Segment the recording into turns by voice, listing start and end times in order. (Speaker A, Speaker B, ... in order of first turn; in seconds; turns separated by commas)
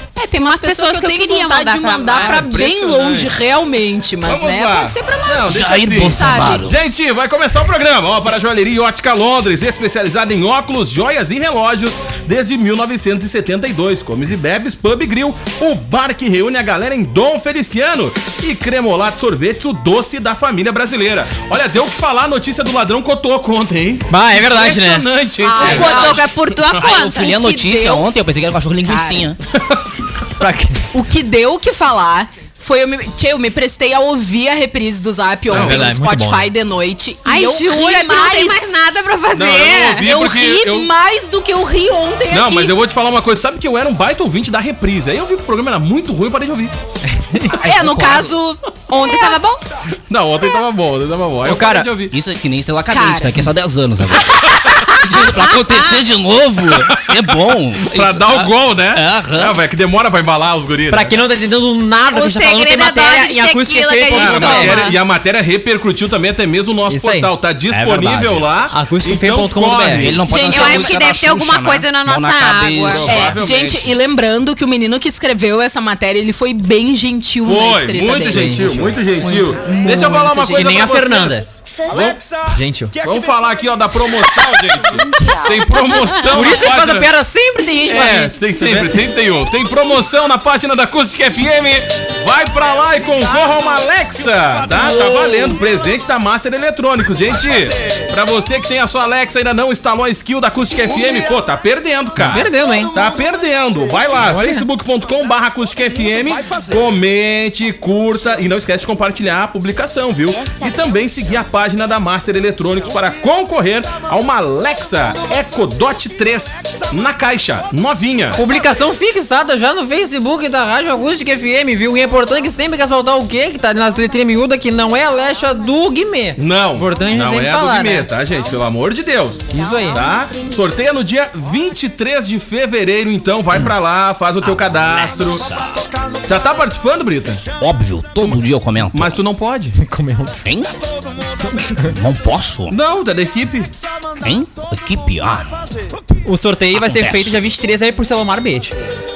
Speaker A: 0.1-6.6, Speaker B: 0.4-2.4, Speaker C: 2.1-3.3, Speaker C: 4.2-26.9, Speaker D: 5.5-6.8, Speaker E: 24.1-25.1, Speaker A: 25.4-26.2, Speaker B: 25.6-27.4, Speaker D: 26.8-29.4, Speaker A: 27.3-28.1, Speaker A: 28.9-29.2, Speaker E: 30.4-30.8, Speaker A: 30.9-38.7, Speaker C: 35.5-35.9, Speaker E: 35.5-36.5, Speaker B: 37.2-40.1, Speaker C: 39.3-40.9, Speaker A: 40.0-42.7, Speaker C: 42.3-46.7, Speaker E: 47.1-47.5, Speaker A: 47.5-49.4, Speaker D: 47.6-48.3, Speaker B: 48.9-49.6, Speaker C: 50.1-52.1, Speaker E: 51.4-51.9, Speaker D: 52.1-59.5, Speaker A: 52.9-53.4, Speaker A: 54.5-55.0, Speaker C: 56.9-57.2, Speaker C: 57.8-61.2, Speaker E: 60.9-64.9, Speaker B: 62.1-64.9, Speaker C: 64.1-70.5, Speaker E: 66.9-67.3, Speaker D: 67.7-68.6, Speaker E: 68.7-70.1, Speaker D: 69.8-73.4, Speaker B: 70.3-73.2, Speaker A: 70.3-70.9, Speaker C: 72.9-74.0, Speaker A: 73.1-78.7, Speaker C: 77.4-82.4, Speaker E: 78.3-78.9, Speaker A: 79.2-80.8, Speaker E: 79.9-81.5, Speaker E: 82.5-82.9, Speaker C: 83.0-87.1, Speaker E: 86.3-89.0, Speaker C: 87.9-118.4, Speaker E: 102.2-103.0, Speaker E: 104.2-104.7, Speaker E: 118.3-128.1, Speaker C: 126.4-135.5, Speaker E: 129.5-130.1, Speaker D: 134.4-135.8, Speaker C: 136.2-137.4, Speaker D: 137.6-139.2, Speaker C: 138.9-139.8, Speaker E: 139.8-140.4, Speaker D: 140.4-140.8, Speaker D: 141.9-142.7, Speaker C: 142.7-143.8, Speaker D: 144.2-145.7, Speaker E: 146.2-148.8, Speaker D: 146.7-147.4